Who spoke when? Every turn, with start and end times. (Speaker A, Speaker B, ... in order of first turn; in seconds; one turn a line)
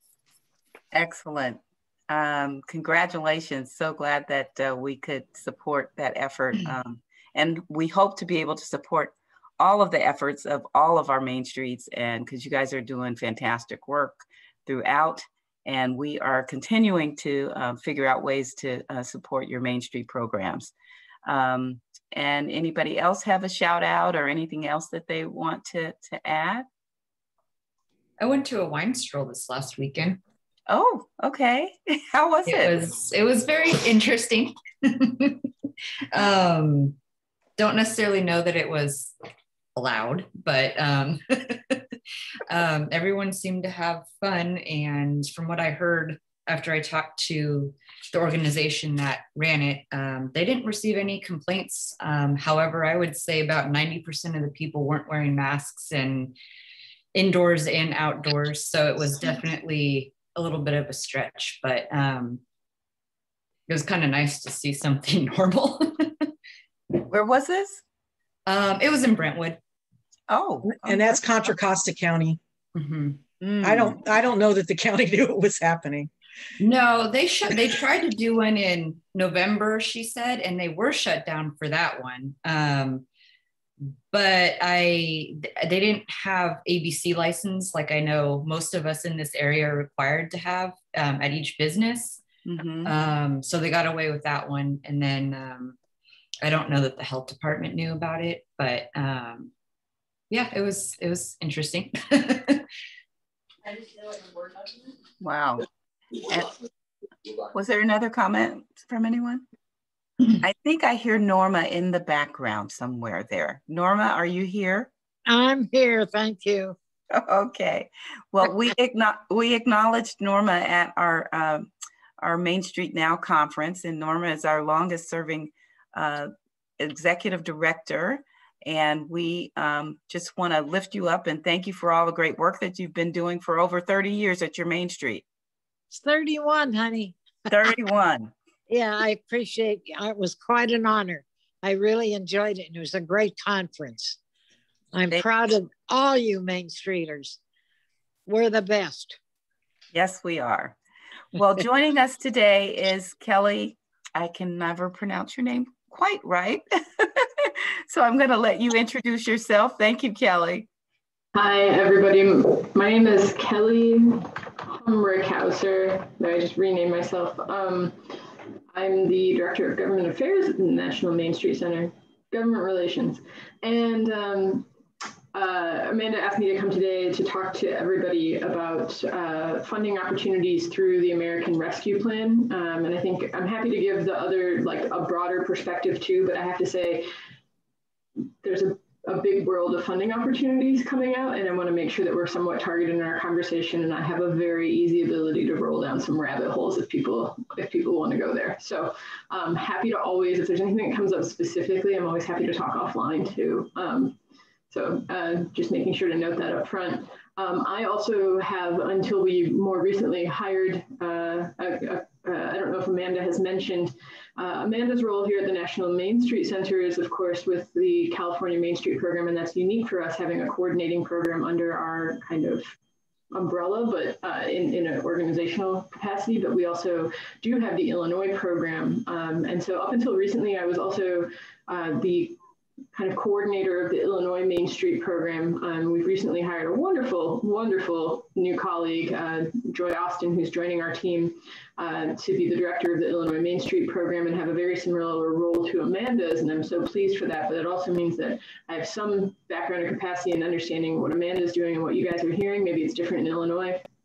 Speaker A: 0.9-20.7
Speaker A: 21.2-26.7
Speaker B: 28.2-30.2
Speaker A: 30.7-32.8
Speaker B: 32.4-35.4
Speaker B: 36.1-37.0
Speaker B: 37.6-39.1
Speaker B: 39.8-41.8
Speaker B: 42.5-56.3
Speaker B: 57.1-62.4
Speaker B: 63.7-66.3
Speaker A: 67.1-67.8
Speaker B: 68.5-69.6
Speaker A: 70.3-71.2
Speaker C: 70.7-72.4
Speaker B: 72.7-73.2
Speaker A: 73.4-74.0
Speaker C: 73.6-76.1
Speaker B: 76.6-83.0
Speaker B: 84.1-92.2
Speaker A: 92.5-92.9
Speaker B: 92.8-95.8
Speaker B: 96.4-99.5
Speaker B: 100.3-102.6
Speaker A: 105.2-105.7
Speaker A: 106.2-106.5
Speaker A: 107.5-109.5
Speaker A: 110.4-114.9
Speaker D: 115.3-116.8
Speaker A: 117.1-135.2
Speaker D: 135.9-137.7
Speaker A: 137.5-138.3
Speaker D: 138.7-144.2
Speaker D: 144.9-147.4
Speaker D: 148.3-149.2
Speaker A: 149.9-150.8
Speaker A: 151.4-160.7
Speaker E: 161.3-168.0
Speaker E: 168.7-174.7
Speaker E: 175.3-187.1
Speaker E: 188.4-204.2
Speaker E: 204.7-222.7
Speaker E: 223.3-232.4
Speaker E: 232.9-253.8